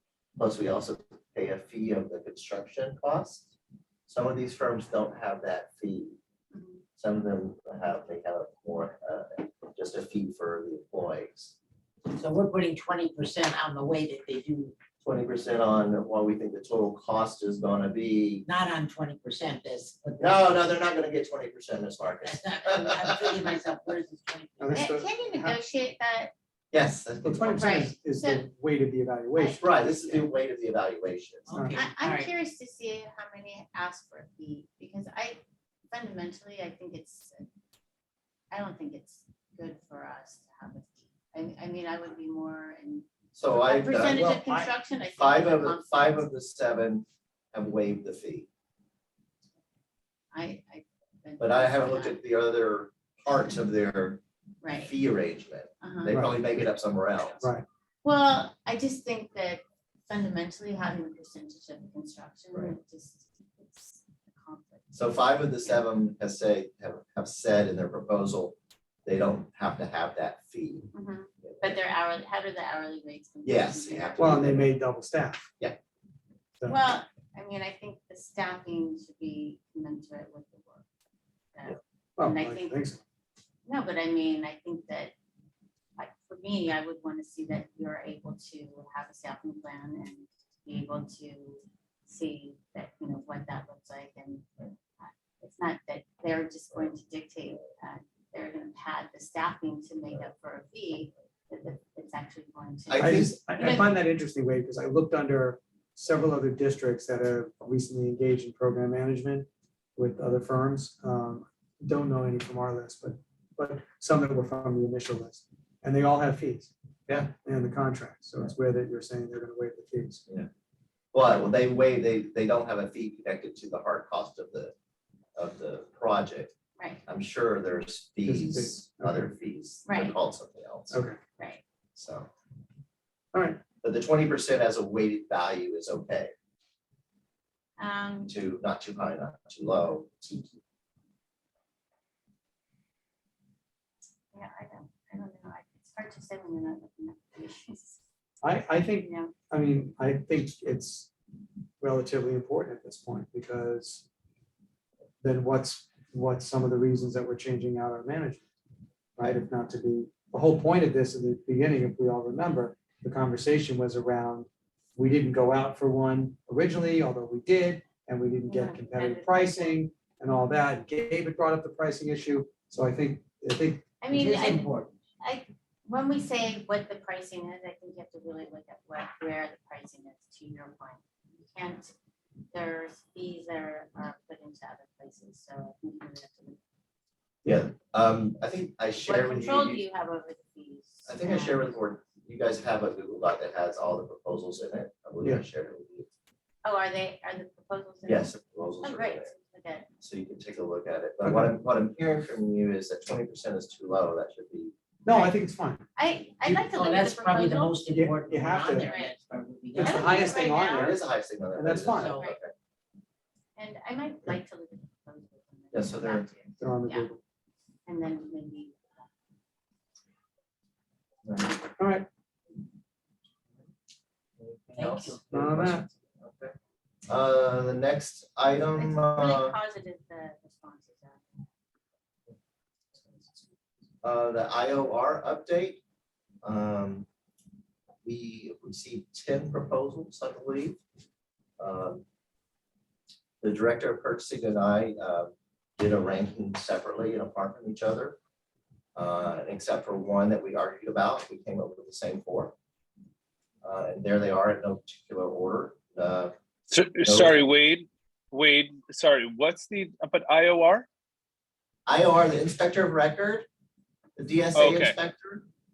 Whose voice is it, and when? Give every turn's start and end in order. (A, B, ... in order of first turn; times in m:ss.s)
0:00.4-0:03.5 A
0:04.1-0:06.2 A
0:06.5-0:06.8 B
0:07.0-0:11.6 A
0:12.1-0:14.7 C
0:15.0-0:18.4 A
0:18.4-0:20.6 C
0:20.2-0:23.8 A
0:22.2-0:24.8 C
0:24.6-0:25.6 D
0:24.7-0:26.3 B
0:26.7-0:27.9 A
0:27.2-0:30.3 D
0:27.5-0:28.4 B
0:29.3-0:29.6 B
0:29.6-0:31.5 A
0:31.5-0:32.3 C
0:31.5-0:31.8 D
0:31.7-0:35.4 B
0:35.9-0:37.4 B
0:38.5-0:46.3 B
0:43.3-0:44.4 A
0:44.1-0:44.7 D
0:45.2-0:48.5 A
0:50.3-0:52.2 B
0:51.4-0:54.2 A
0:54.6-0:54.9 B
0:54.7-0:57.5 A
0:55.8-0:56.2 B
0:56.1-0:56.6 D
0:58.0-1:04.9 B
1:04.9-1:10.9 A
1:10.9-1:14.6 B
1:11.4-1:11.7 A
1:13.4-1:14.7 A
1:14.2-1:15.5 D
1:16.6-1:20.8 B
1:21.5-1:22.8 B
1:22.2-1:23.0 D
1:23.6-1:25.1 B
1:26.0-1:43.9 B
1:42.9-1:43.4 A
1:43.0-1:56.7 D
1:57.1-1:57.3 A
1:57.4-2:00.2 D
2:01.1-2:04.7 A
2:05.4-2:06.5 A
2:07.0-2:11.0 A
2:08.2-2:09.3 D
2:09.8-2:10.2 B
2:10.9-2:11.2 D
2:12.0-2:12.3 A
2:13.3-2:13.6 D
2:13.8-2:16.3 A
2:17.8-2:18.3 B
2:18.3-2:20.5 A
2:24.3-2:28.0 B
2:28.4-2:31.1 D
2:29.0-2:29.3 B
2:31.8-2:34.0 D
2:35.2-2:38.4 D
2:39.2-2:53.8 D
2:48.4-2:49.8 B
2:54.0-3:01.9 B
2:54.1-2:54.9 C
3:02.5-3:06.6 B
3:07.4-3:09.8 A
3:09.0-3:11.8 B
3:11.1-3:16.1 A
3:16.6-3:19.9 B
3:18.0-3:19.3 A
3:20.0-3:24.7 A
3:21.2-3:21.5 D
3:25.0-3:25.8 D
3:25.1-3:25.4 B
3:26.0-3:27.9 B
3:26.5-3:30.5 C
3:27.9-3:28.9 D
3:28.7-3:29.1 B
3:29.8-3:31.0 D
3:29.8-3:31.0 B
3:30.5-3:32.5 A
3:31.5-3:32.1 D
3:31.9-3:32.3 C
3:33.6-3:37.1 B
3:35.7-3:36.3 A
3:36.6-3:37.2 D
3:37.8-3:39.0 B
3:41.2-3:41.5 A
3:41.8-3:42.1 D
3:44.4-3:46.5 A
3:44.8-3:45.2 C
3:45.3-3:45.8 D
3:47.1-3:49.6 A
3:48.7-3:51.4 B
3:54.0-3:55.8 A
3:56.4-3:57.1 A
3:58.0-4:00.8 A
4:01.6-4:02.0 A
4:03.4-4:08.2 A
4:09.0-4:12.5 A
4:13.6-4:16.3 A
4:16.7-4:20.9 E
4:17.0-4:17.3 A
4:21.9-4:23.4 A
4:24.2-4:25.4 A
4:24.5-4:25.0 E